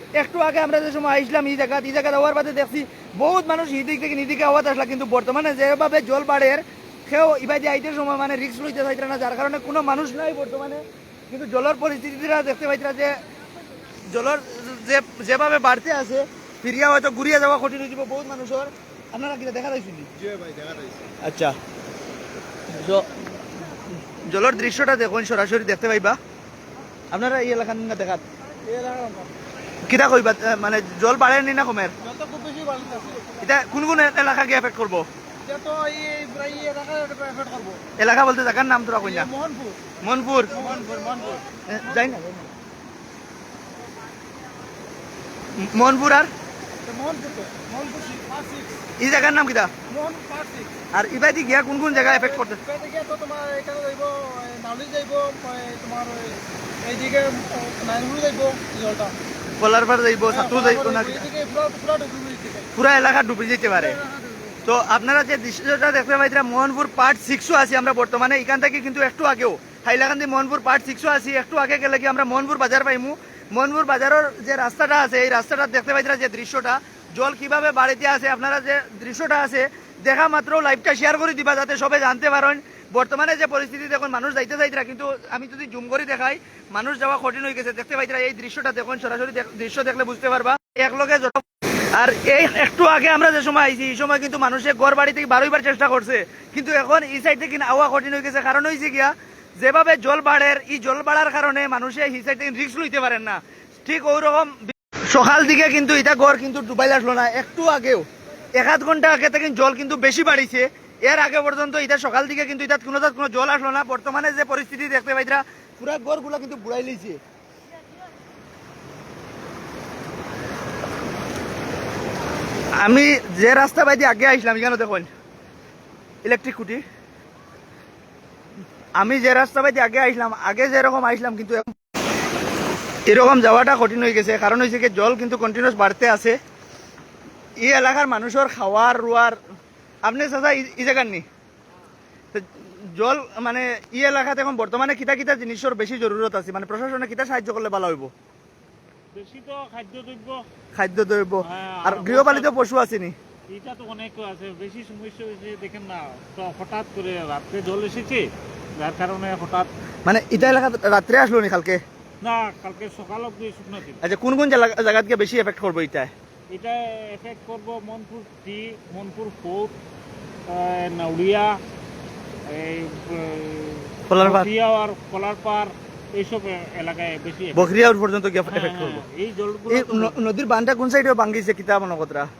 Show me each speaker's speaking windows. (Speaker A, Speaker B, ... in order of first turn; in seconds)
Speaker A: 0.2-13.2, 14.1-20.1, 21.2-21.6, 22.7-23.2, 24.1-26.2, 27.1-28.2, 29.9-31.9, 33.4-35.0, 38.0-39.3, 40.0-40.7, 41.6-42.3, 45.6-46.3, 49.0-49.7, 50.9-52.6, 59.6-61.3, 62.7-64.0, 64.7-117.2, 122.8-125.1, 126.2-126.8, 129.0-131.8, 133.1-136.4, 137.6-139.4, 140.0-141.2, 142.3-148.1, 150.7-153.2, 160.1-161.8, 164.0-166.1, 174.1-174.5, 177.5-179.0, 179.7-182.3
Speaker B: 20.2-21.0, 28.6-29.3, 32.0-33.3, 35.4-37.8, 39.0-39.9, 40.5-42.3, 46.8-48.7, 49.9-50.7, 52.0-59.1, 60.3-62.7, 63.9-64.6
Speaker C: 149.1-150.4, 151.4-152.5, 153.5-159.7, 162.2-164.0, 166.5-169.8, 170.5-171.6, 172.5-177.7, 178.4-180.2